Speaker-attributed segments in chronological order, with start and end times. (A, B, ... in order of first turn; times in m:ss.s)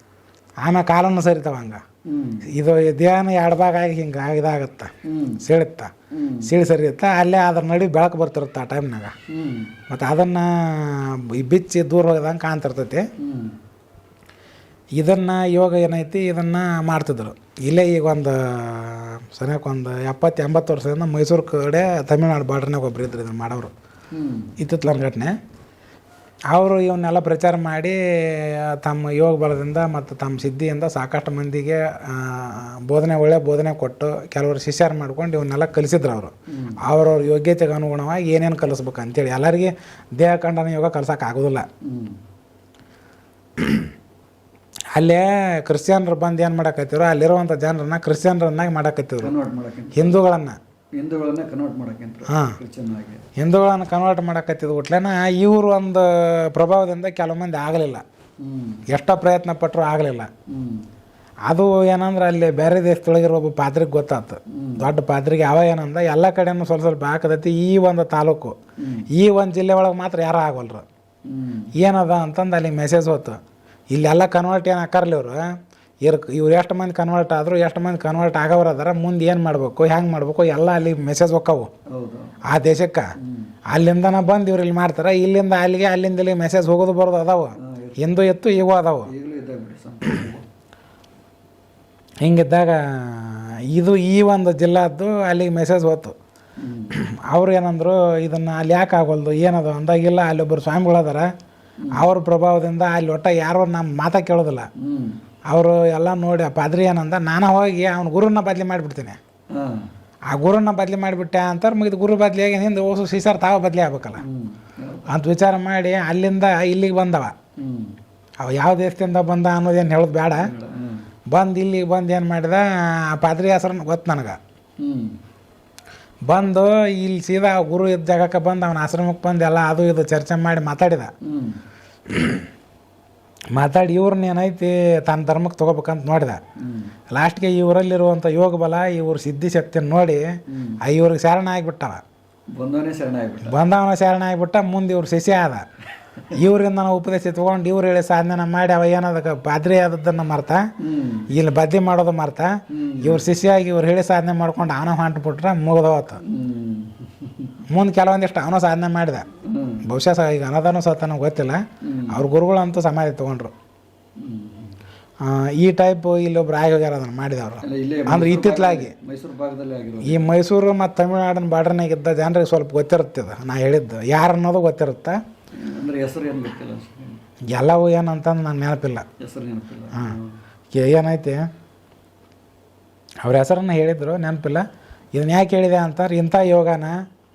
0:00.6-0:01.8 A
0:02.1-0:02.5 B
0:02.5-0:04.9 A
0:05.1-0:05.4 B
0:05.4-0:05.9 A
0:06.1-0:06.5 B
0:06.4-0:09.1 A
0:09.3-0:09.7 B
0:09.9-0:13.1 A
0:13.2-0:13.6 B
0:15.0-0:23.7 A
0:24.1-0:24.5 B
0:24.6-0:25.4 A
0:26.5-0:36.3 A
0:36.5-0:36.8 B
0:36.8-0:41.7 A
0:41.8-0:42.2 B
0:43.6-0:43.9 A
0:45.0-0:49.3 A
0:49.2-0:50.2 B
0:50.0-0:50.6 A
0:51.0-0:53.2 B
0:52.3-0:52.6 A
0:53.4-0:58.0 A
0:58.4-0:58.8 B
0:58.9-1:00.3 A
1:00.5-1:00.8 B
1:01.5-1:08.6 A
1:04.5-1:04.9 B
1:08.8-1:09.1 B
1:09.1-1:10.8 A
1:11.3-1:11.7 B
1:11.8-1:13.4 A
1:13.9-1:15.5 A
1:16.0-1:21.7 A
1:21.9-1:22.4 B
1:22.5-1:23.1 A
1:23.2-1:23.5 B
1:23.7-1:29.1 A
1:27.6-1:28.1 B
1:29.1-1:30.5 B
1:32.2-1:36.2 A
1:36.6-1:37.0 B
1:37.0-1:41.3 A
1:41.9-1:44.7 A
1:44.8-1:45.2 B
1:45.5-1:49.2 A
1:49.5-1:49.9 B
1:50.3-1:54.2 A
1:54.2-1:55.1 B
1:55.1-1:57.3 A
1:57.6-1:58.0 B
1:58.4-2:00.5 A
2:00.4-2:01.0 B
2:01.3-2:04.4 A
2:04.8-2:05.2 B
2:06.3-2:11.1 A
2:11.2-2:11.6 B
2:12.1-2:12.4 A
2:13.5-2:16.4 A
2:16.6-2:17.0 B
2:17.1-2:20.3 A
2:20.5-2:20.8 B
2:20.8-2:22.0 A
2:22.6-2:23.6 B
2:23.4-2:25.6 A
2:26.3-2:30.6 A
2:30.8-2:31.3 B
2:31.3-2:36.2 A
2:32.7-2:33.2 B
2:36.2-2:37.6 B
2:37.7-2:39.2 A
2:39.4-2:39.9 B
2:39.8-2:43.5 A
2:41.8-2:42.2 B
2:44.2-2:44.8 B
2:45.2-2:48.9 A
2:47.6-2:50.3 B
2:50.0-2:55.2 A
2:55.6-2:57.2 B
2:57.5-2:59.0 A
2:59.2-3:00.4 B
3:00.7-3:01.4 A
3:03.2-3:07.0 A